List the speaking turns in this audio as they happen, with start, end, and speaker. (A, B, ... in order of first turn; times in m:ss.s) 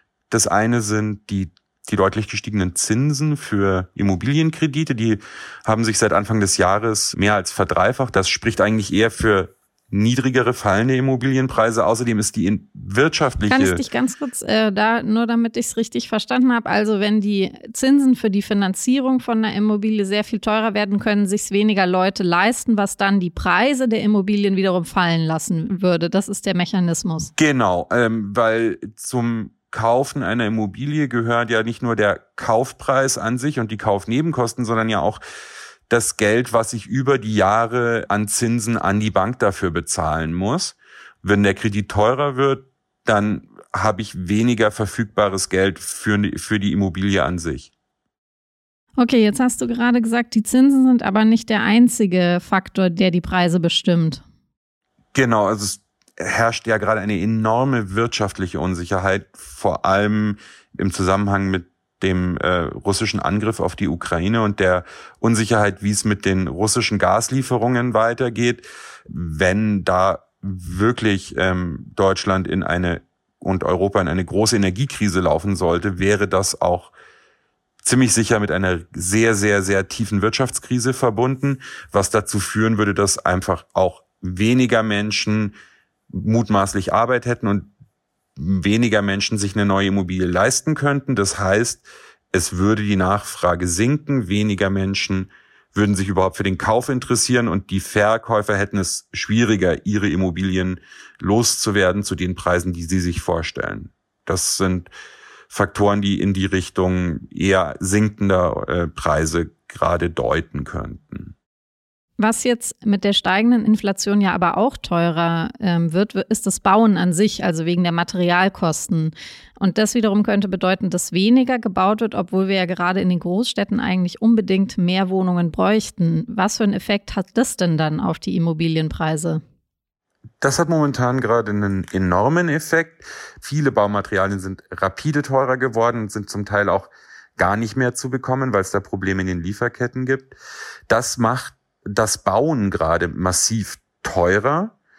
0:00.3-0:13.8 A
0:13.5-0:27.3 B
0:27.4-0:35.2 A
0:35.9-0:47.7 A
0:49.0-0:54.2 B
0:55.1-1:16.9 A
1:17.8-1:25.6 A
1:26.1-1:27.7 A
1:28.4-1:44.9 A
1:45.5-1:51.3 A
1:52.2-2:09.4 B
2:10.4-2:20.4 A
2:20.9-2:24.8 A